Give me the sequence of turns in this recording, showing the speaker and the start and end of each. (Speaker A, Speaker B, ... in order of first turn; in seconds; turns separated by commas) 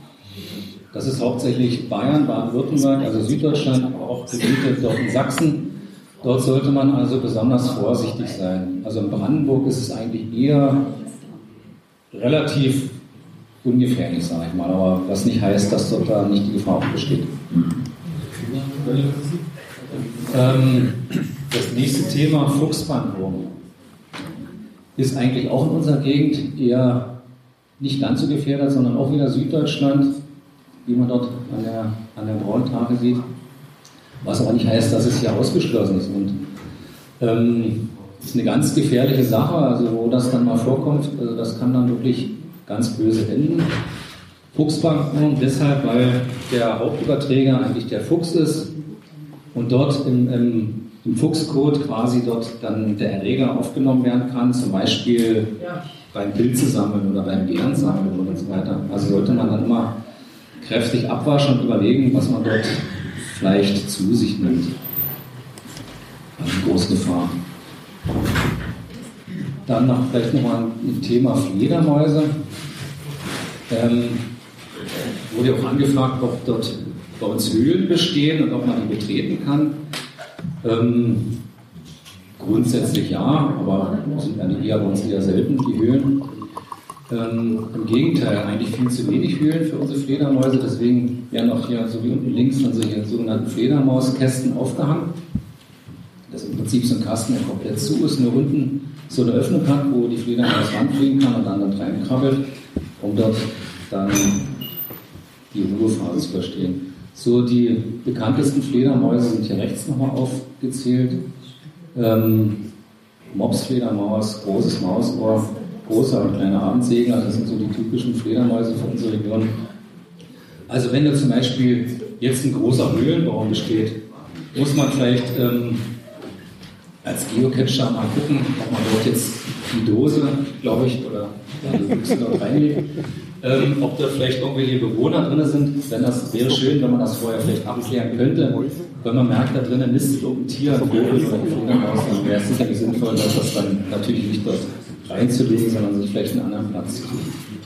Speaker A: 0.9-10.9, Speaker A: 12.1-12.9, Speaker A: 13.6-17.3, Speaker A: 20.3-23.5, Speaker A: 24.9-27.2, Speaker A: 27.8-30.1, Speaker A: 30.8-33.2, Speaker A: 34.2-36.4, Speaker A: 37.2-43.7, Speaker A: 44.5-48.7, Speaker A: 49.5-60.0, Speaker A: 60.6-64.8, Speaker A: 66.4-67.3, Speaker A: 69.7-72.3, Speaker A: 73.7-74.3, Speaker A: 75.3-79.8, Speaker A: 80.6-81.4, Speaker A: 82.4-86.2, Speaker A: 87.1-95.1, Speaker A: 96.3-102.4, Speaker A: 103.0-104.4, Speaker A: 105.5-111.2, Speaker A: 111.9-112.6, Speaker A: 113.3-119.5, Speaker A: 120.7-124.0, Speaker A: 124.5-125.9, Speaker A: 127.0-132.9, Speaker A: 133.4-147.3